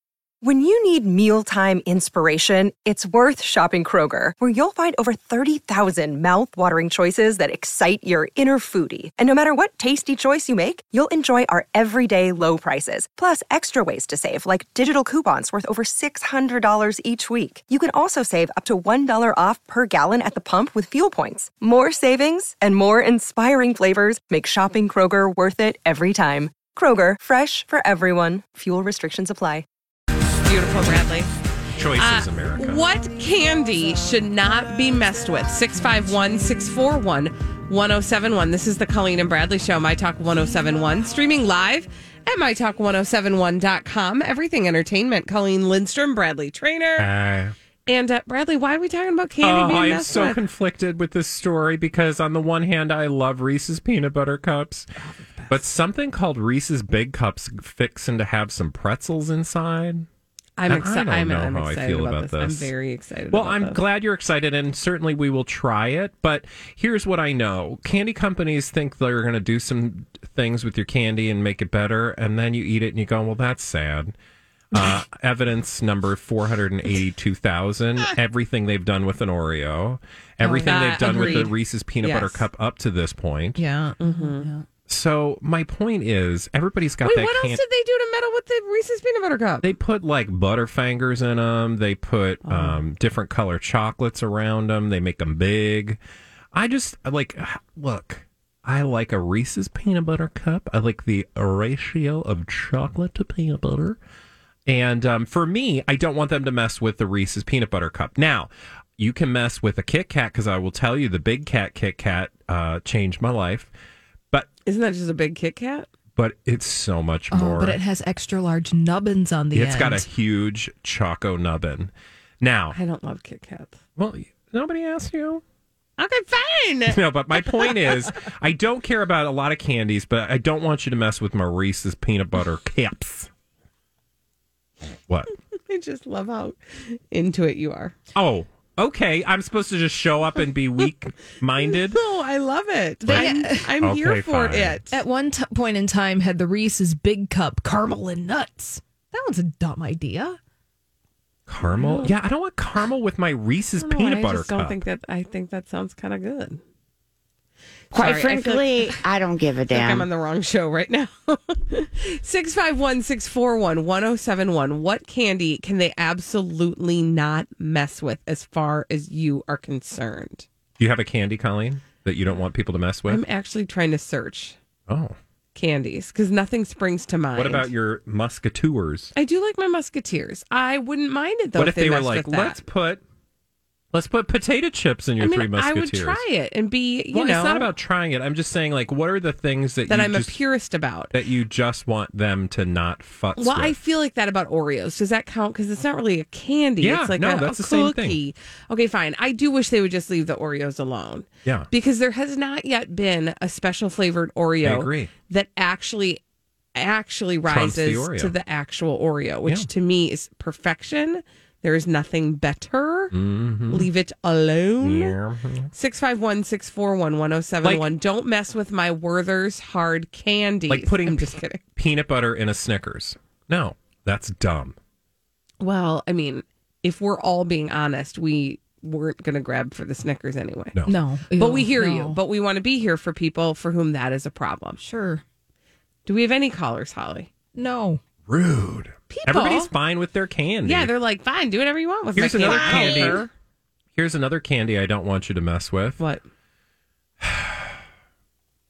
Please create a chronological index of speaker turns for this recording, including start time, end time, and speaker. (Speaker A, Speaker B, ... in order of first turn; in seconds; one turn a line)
Speaker A: 0.4-29.6
Speaker B: 30.4-31.3
Speaker C: 31.8-32.9
Speaker B: 32.0-47.1
Speaker C: 47.0-47.5
Speaker B: 47.9-50.4
Speaker C: 49.4-54.9
Speaker D: 55.0-55.6
Speaker C: 55.5-60.1
Speaker B: 60.6-63.8
Speaker C: 60.7-62.7
Speaker C: 63.3-74.2
Speaker C: 74.7-83.6
Speaker D: 80.4-81.5
Speaker B: 80.7-82.4
Speaker D: 83.5-84.6
Speaker B: 84.0-84.5
Speaker C: 84.9-87.6
Speaker B: 87.0-89.7
Speaker C: 89.6-96.0
Speaker B: 92.4-92.8
Speaker C: 96.5-104.0
Speaker C: 104.7-113.7
Speaker B: 114.6-115.9
Speaker C: 116.2-117.8
Speaker D: 117.3-120.1
Speaker C: 119.5-122.8
Speaker B: 122.7-123.8
Speaker C: 124.0-125.4
Speaker B: 126.0-127.9
Speaker C: 126.9-133.3
Speaker C: 135.1-135.3
Speaker B: 135.7-137.9
Speaker C: 138.1-142.0
Speaker B: 141.7-145.0
Speaker D: 143.1-143.7
Speaker C: 143.1-144.8
Speaker D: 144.9-150.4
Speaker C: 151.5-154.8
Speaker B: 151.6-152.1
Speaker B: 153.8-156.6
Speaker B: 157.9-159.0
Speaker E: 157.9-160.1
Speaker B: 159.7-170.4
Speaker C: 170.8-173.2
Speaker B: 173.1-174.6
Speaker C: 174.9-175.2
Speaker B: 175.5-177.7
Speaker C: 177.3-179.1
Speaker B: 179.1-182.6
Speaker C: 181.6-183.0
Speaker C: 183.9-186.2
Speaker B: 185.2-187.7
Speaker C: 187.1-190.3
Speaker B: 189.9-191.1
Speaker C: 191.1-193.7
Speaker B: 193.4-206.2
Speaker C: 196.8-198.2
Speaker C: 204.6-205.1
Speaker B: 206.8-213.2
Speaker C: 207.4-208.3
Speaker C: 213.1-213.9
Speaker B: 213.7-215.2
Speaker C: 214.8-215.7
Speaker B: 215.7-221.6
Speaker C: 220.7-224.8
Speaker B: 225.6-230.8
Speaker D: 230.8-232.2
Speaker B: 231.3-234.8
Speaker D: 234.8-235.2
Speaker B: 236.1-237.3
Speaker D: 237.5-238.0
Speaker C: 238.3-240.9
Speaker B: 239.1-239.7
Speaker B: 240.6-243.3
Speaker C: 242.2-243.3
Speaker D: 242.2-243.2
Speaker C: 243.9-246.0
Speaker C: 247.2-247.7